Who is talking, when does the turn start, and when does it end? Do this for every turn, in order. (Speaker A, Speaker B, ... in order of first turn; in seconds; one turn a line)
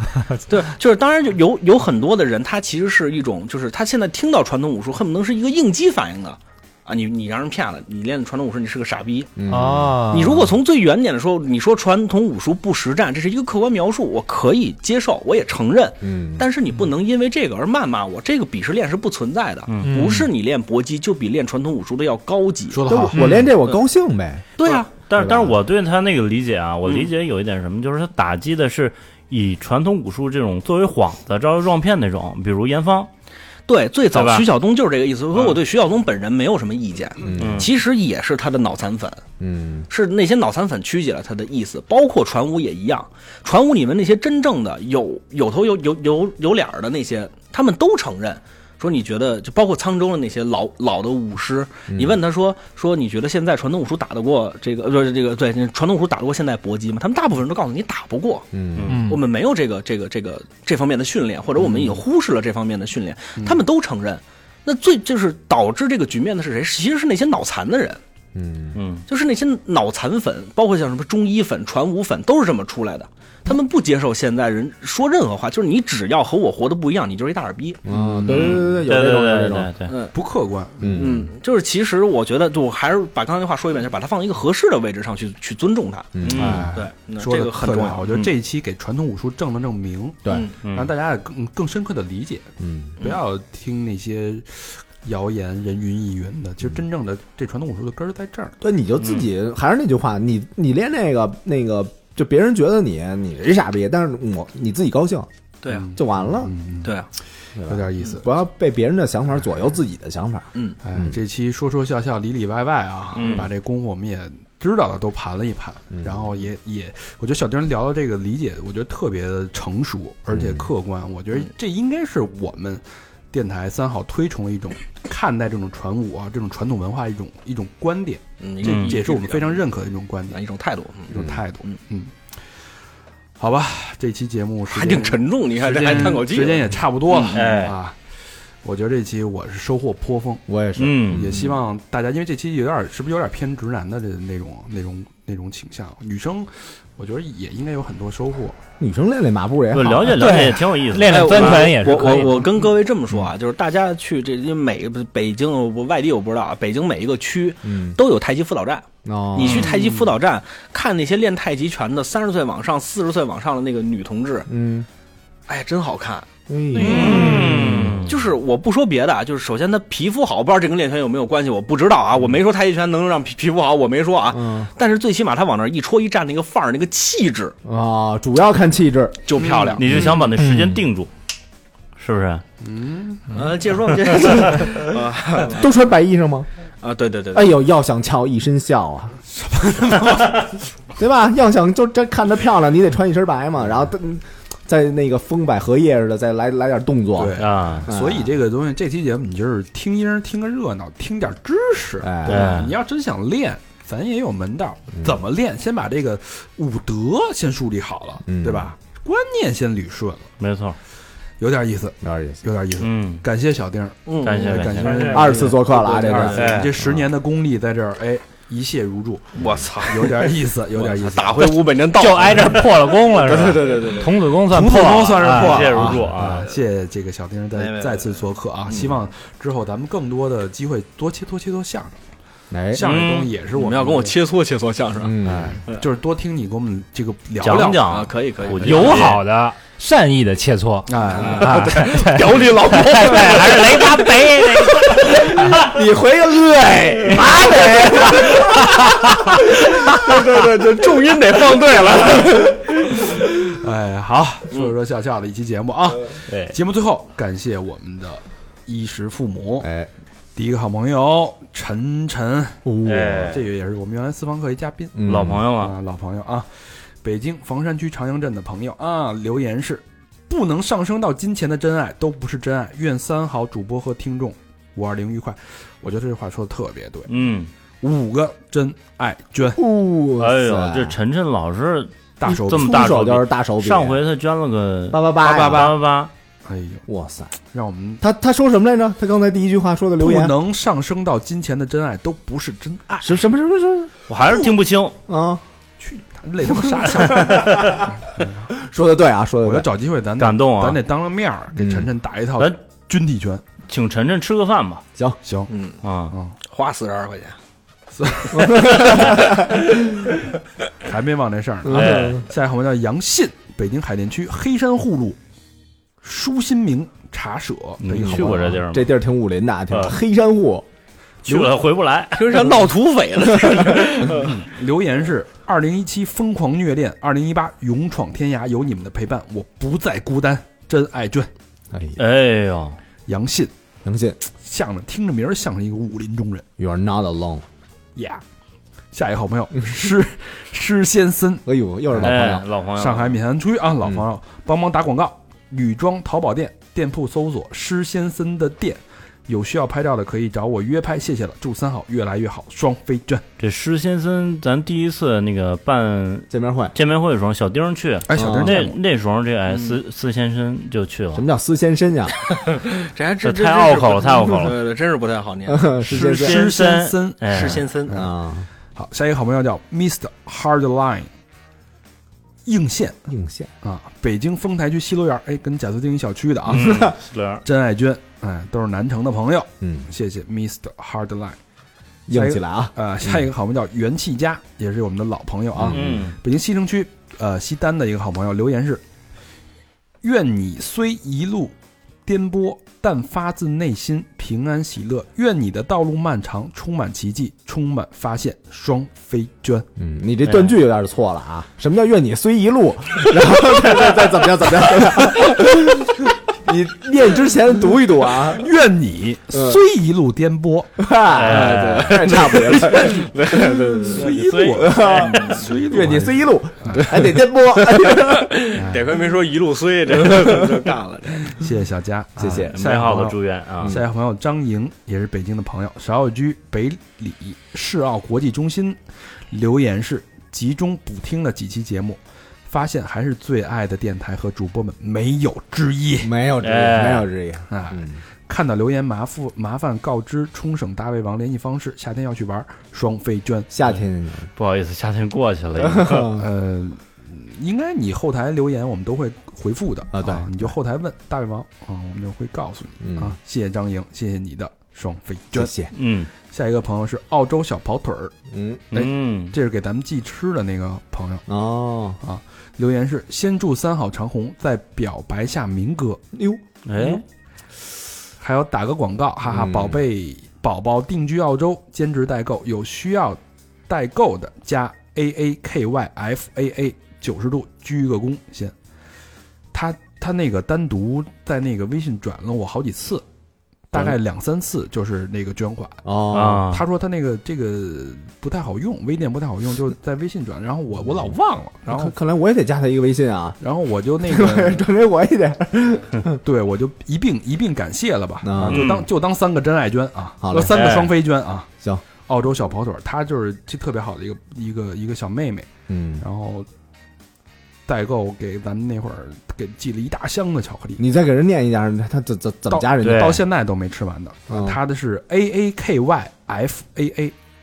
Speaker A: 0.5-9.3
Speaker B: 9.4-10.3
Speaker C: 9.5-10.4
Speaker A: 10.1-22.8
Speaker B: 16.0-16.4
Speaker D: 19.7-20.1
Speaker C: 19.8-20.3
Speaker E: 22.7-23.4
Speaker B: 22.9-24.4
Speaker C: 23.1-23.4
Speaker A: 24.6-24.9
Speaker D: 24.7-33.1
Speaker B: 25.1-25.6
Speaker A: 33.7-39.2
Speaker D: 34.1-34.5
Speaker B: 37.2-37.7
Speaker D: 37.4-37.7
Speaker B: 39.4-39.9
Speaker A: 39.9-58.5
Speaker B: 51.9-52.2
Speaker B: 58.5-59.0
Speaker D: 58.7-59.0
Speaker C: 58.9-59.2
Speaker A: 59.0-68.0
Speaker B: 68.3-68.8
Speaker D: 68.7-69.0
Speaker A: 69.1-78.6
Speaker B: 77.8-79.7
Speaker E: 77.9-78.2
Speaker D: 78.3-79.9
Speaker A: 79.9-80.1
Speaker E: 80.1-81.1
Speaker B: 80.8-81.3
Speaker A: 80.9-86.1
Speaker B: 86.1-86.8
Speaker D: 86.2-86.7
Speaker E: 86.3-98.6
Speaker A: 86.7-88.3
Speaker D: 90.6-90.9
Speaker B: 92.6-93.0
Speaker B: 98.6-105.3
Speaker A: 105.6-105.9
Speaker E: 105.7-106.9
Speaker B: 105.9-106.5
Speaker A: 106.8-107.1
Speaker E: 107.6-108.3
Speaker B: 107.6-111.2
Speaker E: 110.8-130.4
Speaker D: 113.1-113.5
Speaker B: 115.9-116.3
Speaker B: 120.3-120.7
Speaker A: 128.4-129.6
Speaker D: 128.6-128.9
Speaker A: 130.3-131.8
Speaker E: 131.1-132.1
Speaker B: 131.1-131.4
Speaker E: 133.4-137.9
Speaker A: 134.7-137.4
Speaker D: 137.3-137.8
Speaker E: 138.6-140.4
Speaker B: 140.5-141.6
Speaker D: 140.8-141.4
Speaker E: 141.0-148.6
Speaker B: 148.8-150.5
Speaker D: 149.7-151.7
Speaker C: 150.1-152.5
Speaker A: 151.1-164.5
Speaker B: 157.6-158.0
Speaker B: 159.0-159.7
Speaker E: 159.5-160.1
Speaker B: 164.5-164.9
Speaker A: 165.5-177.5
Speaker B: 166.5-168.1
Speaker D: 166.8-168.2
Speaker E: 166.9-167.4
Speaker B: 174.3-174.7
Speaker B: 177.6-179.4
Speaker A: 179.2-179.8
Speaker E: 179.4-179.8
Speaker D: 179.8-181.1
Speaker C: 180.4-180.7
Speaker D: 182.0-182.4
Speaker E: 182.6-183.4
Speaker A: 183.3-185.6
Speaker B: 185.5-186.5
Speaker A: 186.8-187.6
Speaker B: 187.3-189.2
Speaker E: 189.3-190.5
Speaker B: 191.0-198.3
Speaker E: 197.2-210.3
Speaker D: 197.4-197.9
Speaker B: 202.0-202.6
Speaker D: 202.2-202.8
Speaker B: 208.2-208.7
Speaker D: 210.4-210.8
Speaker E: 211.4-221.6
Speaker B: 212.0-212.4
Speaker D: 212.8-213.2
Speaker A: 214.1-216.7
Speaker D: 214.2-215.3
Speaker B: 215.1-217.1
Speaker D: 216.3-216.7
Speaker A: 219.3-224.2
Speaker B: 219.4-219.6
Speaker C: 221.9-225.7
Speaker E: 224.4-232.0
Speaker D: 225.3-226.5
Speaker B: 225.6-226.1
Speaker A: 227.5-229.0
Speaker B: 232.5-232.8
Speaker E: 232.7-234.2
Speaker D: 232.8-233.3
Speaker A: 233.5-235.2
Speaker B: 235.0-235.6
Speaker E: 235.2-237.9
Speaker D: 237.4-239.2
Speaker A: 237.8-239.0
Speaker C: 238.6-245.7
Speaker E: 240.9-241.8
Speaker A: 241.1-244.1
Speaker B: 245.1-249.1
Speaker A: 247.1-248.3
Speaker A: 249.4-252.7
Speaker E: 253.0-259.7
Speaker D: 256.3-256.5
Speaker B: 259.6-259.9
Speaker E: 260.4-262.6
Speaker B: 262.6-263.4
Speaker D: 262.8-263.4
Speaker E: 263.3-266.5
Speaker B: 264.9-265.4
Speaker D: 265.1-265.8
Speaker E: 267.0-277.1
Speaker D: 277.1-277.5
Speaker E: 277.8-279.6
Speaker B: 279.5-281.0
Speaker D: 280.2-286.1
Speaker E: 282.2-282.9
Speaker B: 282.2-284.0
Speaker B: 284.9-285.7
Speaker E: 285.2-285.8
Speaker E: 286.4-286.8
Speaker B: 286.9-287.3
Speaker E: 287.5-288.0
Speaker B: 288.0-290.3
Speaker E: 290.0-293.2
Speaker B: 293.0-293.9
Speaker D: 294.1-294.9
Speaker B: 295.1-295.4
Speaker E: 295.8-298.5
Speaker B: 297.2-297.8
Speaker B: 298.5-299.7
Speaker E: 299.4-303.4
Speaker D: 300.2-300.8
Speaker B: 301.5-301.9
Speaker D: 303.7-304.8
Speaker E: 305.2-305.5
Speaker A: 305.5-305.8
Speaker D: 305.8-306.2
Speaker A: 306.4-307.4
Speaker E: 307.9-309.2
Speaker B: 308.3-309.4
Speaker E: 310.8-315.2
Speaker B: 311.6-312.2
Speaker D: 311.7-312.2
Speaker E: 316.0-318.6
Speaker D: 317.8-318.9
Speaker B: 317.9-320.6
Speaker D: 319.7-320.0
Speaker D: 321.2-322.6
Speaker E: 321.3-321.5
Speaker A: 322.1-324.3
Speaker E: 324.0-331.3
Speaker B: 331.7-332.0
Speaker D: 332.0-332.8
Speaker E: 333.1-333.5
Speaker B: 333.8-334.2
Speaker E: 334.3-336.4
Speaker B: 336.6-337.4
Speaker E: 337.9-338.2
Speaker E: 338.9-341.4
Speaker B: 341.4-342.5
Speaker E: 341.9-353.2
Speaker D: 342.0-343.2
Speaker D: 353.4-361.2
Speaker B: 356.3-356.8
Speaker E: 358.1-358.8
Speaker B: 358.1-358.7
Speaker A: 359.5-359.8
Speaker B: 361.1-362.1
Speaker A: 362.4-365.7
Speaker D: 363.2-364.6
Speaker B: 365.5-366.4
Speaker D: 365.8-367.6
Speaker E: 365.9-368.1
Speaker A: 367.3-368.0
Speaker B: 367.9-368.5
Speaker E: 368.7-371.1
Speaker E: 372.4-373.1
Speaker B: 373.1-373.5
Speaker E: 373.6-376.9
Speaker D: 376.5-377.4
Speaker B: 376.5-376.9
Speaker E: 377.4-381.4
Speaker B: 379.6-379.9
Speaker B: 382.1-383.3
Speaker E: 382.1-388.8
Speaker B: 385.5-386.1
Speaker D: 385.6-386.2
Speaker E: 390.0-391.5
Speaker E: 392.1-399.7
Speaker B: 399.8-408.5
Speaker D: 400.3-400.5
Speaker E: 408.3-410.8
Speaker B: 409.3-409.6
Speaker B: 410.8-413.2
Speaker D: 411.1-412.5
Speaker A: 411.2-414.2
Speaker E: 413.6-417.1
Speaker D: 413.9-415.4
Speaker B: 414.5-418.4
Speaker A: 414.7-415.6
Speaker A: 417.8-421.4
Speaker E: 418.5-419.0
Speaker E: 421.3-428.8
Speaker B: 422.2-422.5
Speaker D: 422.5-423.8
Speaker E: 429.3-436.1
Speaker B: 436.0-438.0
Speaker D: 436.4-437.1
Speaker E: 437.5-443.5
Speaker B: 443.5-444.3
Speaker D: 444.4-446.2
Speaker B: 445.6-446.3
Speaker E: 446.1-455.5
Speaker B: 449.9-450.5
Speaker B: 452.8-453.2
Speaker B: 455.3-455.7
Speaker D: 455.7-456.1
Speaker E: 456.2-458.1
Speaker B: 458.3-458.6
Speaker D: 458.7-459.3
Speaker E: 458.7-461.2
Speaker B: 461.3-462.0
Speaker E: 462.0-466.0
Speaker B: 466.1-466.9
Speaker D: 466.6-467.0
Speaker E: 468.2-478.5
Speaker B: 469.2-469.8
Speaker E: 479.5-483.0
Speaker E: 483.7-485.8
Speaker B: 483.7-484.0
Speaker B: 485.8-486.5
Speaker D: 486.1-486.6
Speaker E: 486.4-491.9
Speaker B: 491.7-493.4
Speaker E: 493.4-494.6
Speaker B: 494.0-496.2
Speaker E: 496.2-501.5
Speaker B: 498.2-498.7
Speaker D: 498.4-498.9
Speaker B: 500.2-500.7
Speaker D: 500.5-500.9
Speaker E: 502.1-505.5
Speaker B: 505.7-506.0
Speaker E: 506.0-506.5
Speaker E: 507.7-510.8
Speaker B: 510.8-513.2
Speaker E: 512.5-517.1
Speaker D: 512.8-513.2
Speaker B: 514.3-514.6